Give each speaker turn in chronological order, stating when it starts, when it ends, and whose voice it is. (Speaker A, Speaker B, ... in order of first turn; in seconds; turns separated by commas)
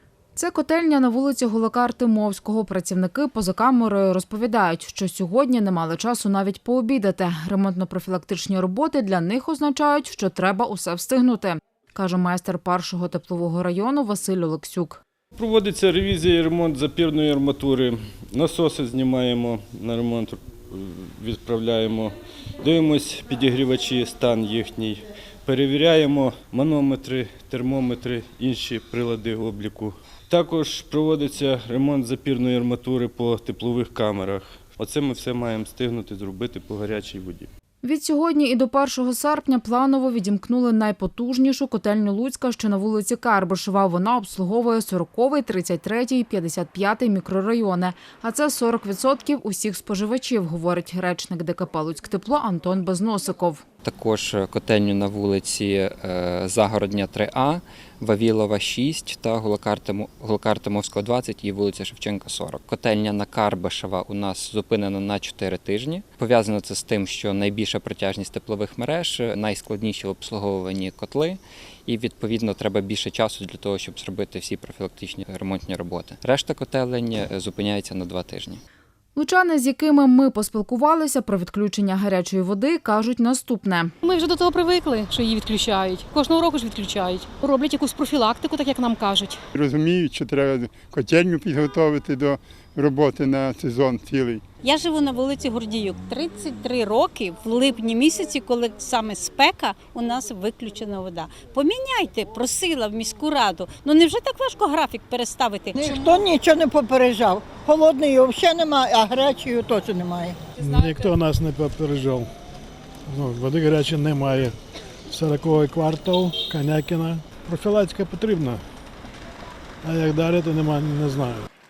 Speaker A: 0.3-15.0, Speaker B: 15.4-37.5, Speaker A: 37.8-53.6, Speaker C: 53.8-78.6, Speaker A: 79.1-83.9, Speaker D: 84.0-89.4, Speaker E: 89.5-94.4, Speaker F: 94.6-106.2, Speaker G: 105.8-110.4, Speaker H: 110.6-112.3, Speaker H: 113.1-114.5, Speaker H: 115.1-118.6, Speaker H: 119.8-121.5